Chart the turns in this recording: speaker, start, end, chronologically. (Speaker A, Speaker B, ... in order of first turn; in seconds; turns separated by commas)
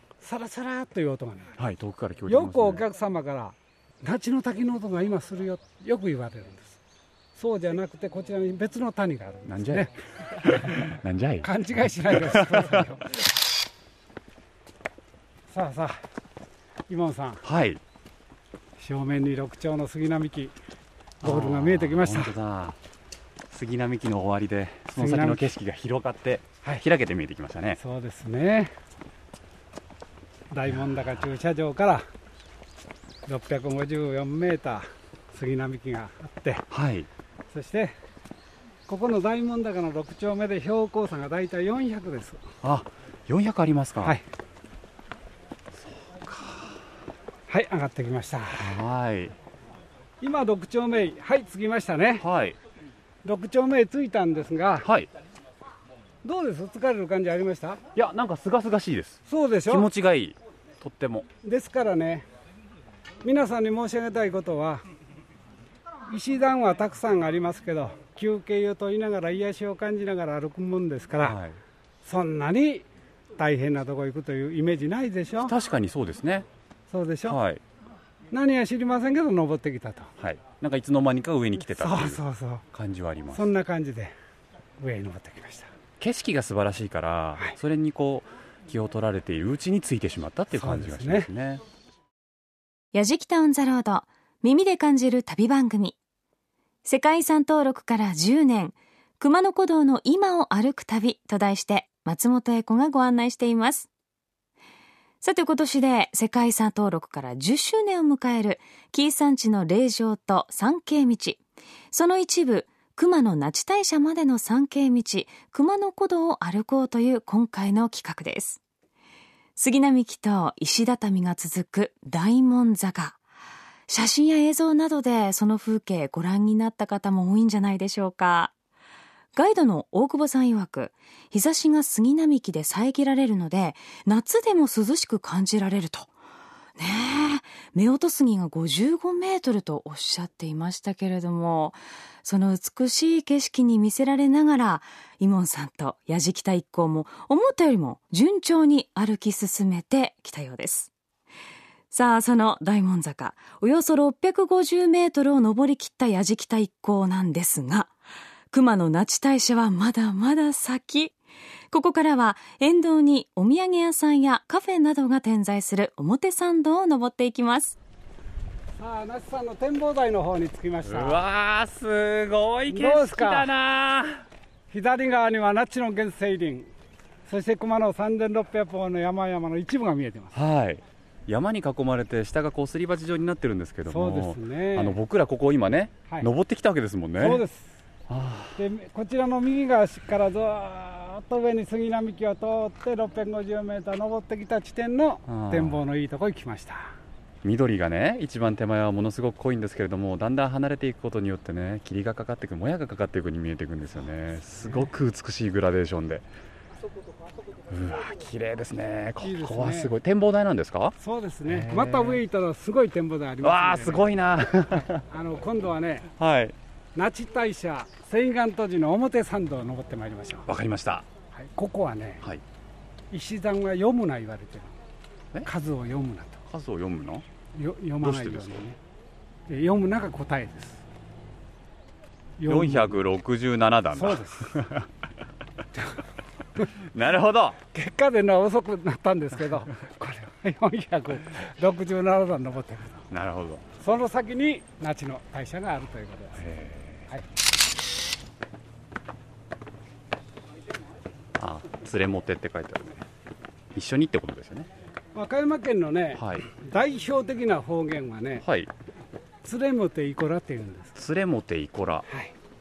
Speaker A: 0.2-1.6, Speaker B: 1.6-2.8, Speaker A: 2.3-6.8, Speaker A: 7.3-13.1, Speaker B: 9.5-12.8, Speaker A: 15.5-16.0, Speaker A: 16.9-17.4, Speaker B: 17.4-17.8, Speaker A: 18.8-20.5, Speaker A: 21.2-22.3, Speaker B: 21.2-22.8, Speaker B: 23.5-27.8, Speaker A: 24.9-25.5, Speaker A: 27.8-28.7, Speaker A: 30.5-32.0, Speaker A: 33.2-36.7, Speaker B: 36.7-37.1, Speaker A: 37.5-37.9, Speaker A: 38.9-42.5, Speaker B: 42.6-44.2, Speaker B: 46.0-46.8, Speaker A: 47.5-48.8, Speaker B: 48.5-49.3, Speaker A: 50.2-52.2, Speaker B: 52.2-52.6, Speaker A: 53.2-54.9, Speaker B: 54.8-55.1, Speaker A: 56.2-57.8, Speaker B: 57.9-61.3, Speaker A: 59.3-59.9, Speaker A: 61.4-62.2, Speaker A: 63.2-64.8, Speaker A: 66.1-71.4, Speaker B: 71.2-71.6, Speaker A: 72.0-72.8, Speaker A: 73.4-75.5, Speaker B: 75.5-76.5, Speaker A: 76.9-77.4, Speaker B: 77.2-77.6, Speaker A: 78.3-80.1, Speaker B: 80.2-82.2, Speaker A: 81.7-82.6, Speaker B: 82.7-83.4, Speaker A: 83.3-84.1, Speaker A: 84.8-85.7, Speaker B: 86.0-91.6, Speaker A: 90.5-91.3, Speaker C: 92.9-96.0, Speaker C: 96.8-103.9, Speaker C: 105.2-111.4, Speaker C: 111.9-118.6, Speaker C: 119.6-123.2, Speaker C: 123.9-128.5, Speaker C: 129.3-136.1, Speaker C: 136.8-150.9, Speaker C: 151.9-157.9, Speaker C: 158.5-161.1, Speaker C: 161.7-167.8, Speaker A: 168.8-171.2, Speaker B: 170.8-174.2, Speaker A: 172.7-173.5, Speaker A: 174.7-176.7, Speaker A: 177.2-180.3, Speaker B: 180.3-187.4, Speaker A: 183.9-185.0, Speaker A: 187.2-187.8, Speaker B: 188.1-188.6, Speaker A: 188.6-196.9, Speaker B: 195.3-195.8, Speaker B: 197.4-206.3, Speaker A: 204.6-204.9, Speaker B: 207.7-212.2, Speaker A: 209.2-209.9, Speaker A: 211.0-214.0, Speaker B: 213.4-215.1, Speaker A: 215.1-216.1, Speaker B: 216.2-216.5, Speaker A: 216.9-220.5, Speaker B: 220.5-221.0, Speaker A: 221.3-222.2, Speaker A: 223.1-224.8, Speaker A: 225.4-226.4, Speaker B: 226.5-227.2, Speaker A: 227.5-228.8, Speaker B: 228.0-228.6, Speaker A: 229.5-230.8, Speaker A: 232.4-233.0, Speaker B: 232.5-234.9, Speaker A: 233.9-234.5, Speaker B: 236.8-237.6, Speaker A: 237.7-243.1, Speaker B: 243.1-243.6, Speaker A: 243.8-246.4, Speaker B: 246.4-247.1, Speaker B: 251.4-253.0, Speaker B: 253.7-254.7, Speaker A: 255.1-258.4, Speaker B: 256.2-256.4, Speaker B: 258.4-258.7, Speaker A: 259.4-260.9, Speaker B: 260.9-262.0, Speaker A: 262.1-262.3